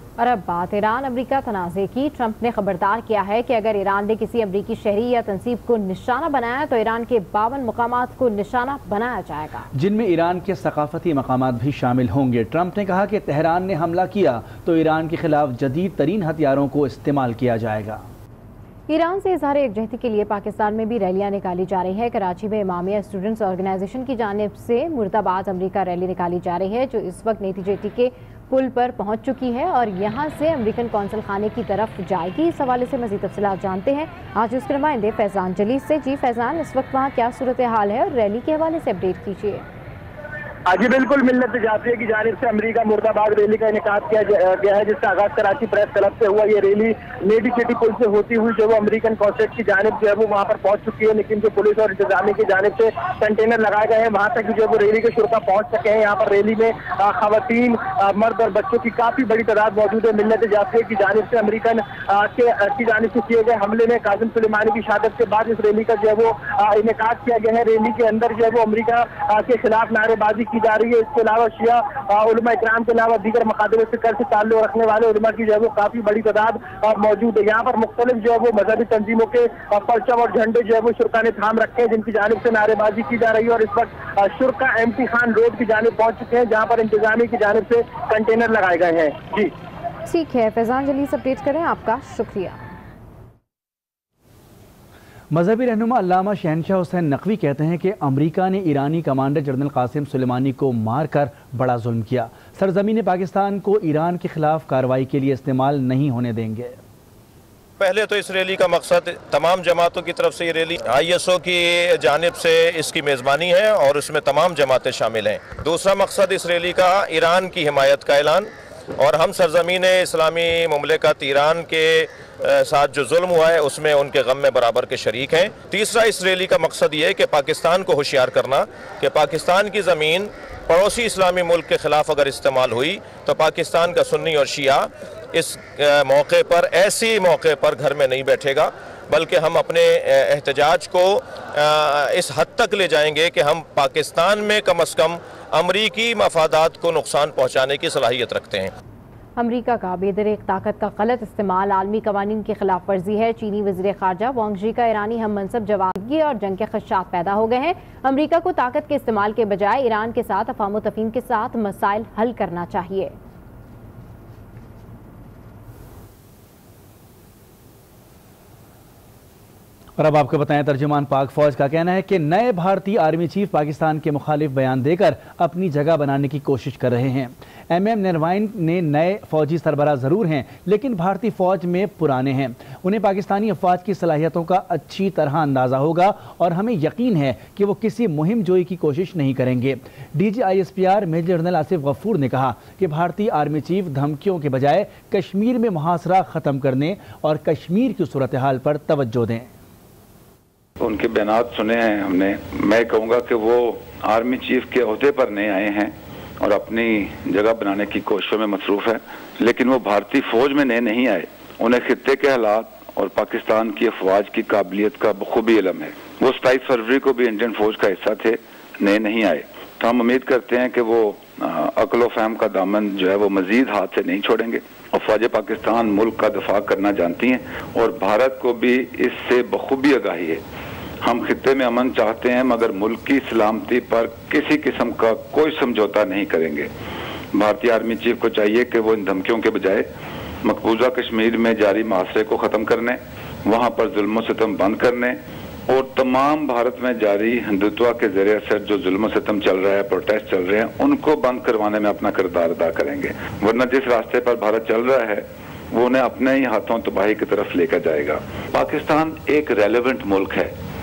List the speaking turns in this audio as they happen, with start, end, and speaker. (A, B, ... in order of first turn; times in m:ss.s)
0:00.2-0:09.7 A
0:09.7-0:18.0 B
0:18.9-0:39.6 A
0:40.7-1:29.5 C
1:30.1-1:32.7 A
1:35.3-1:46.8 B
1:47.8-2:28.7 D
2:29.4-2:43.1 A
2:50.0-3:19.5 B
3:20.8-3:50.4 E
3:51.0-3:56.7 E
3:57.3-3:59.9 E
4:00.4-4:20.5 E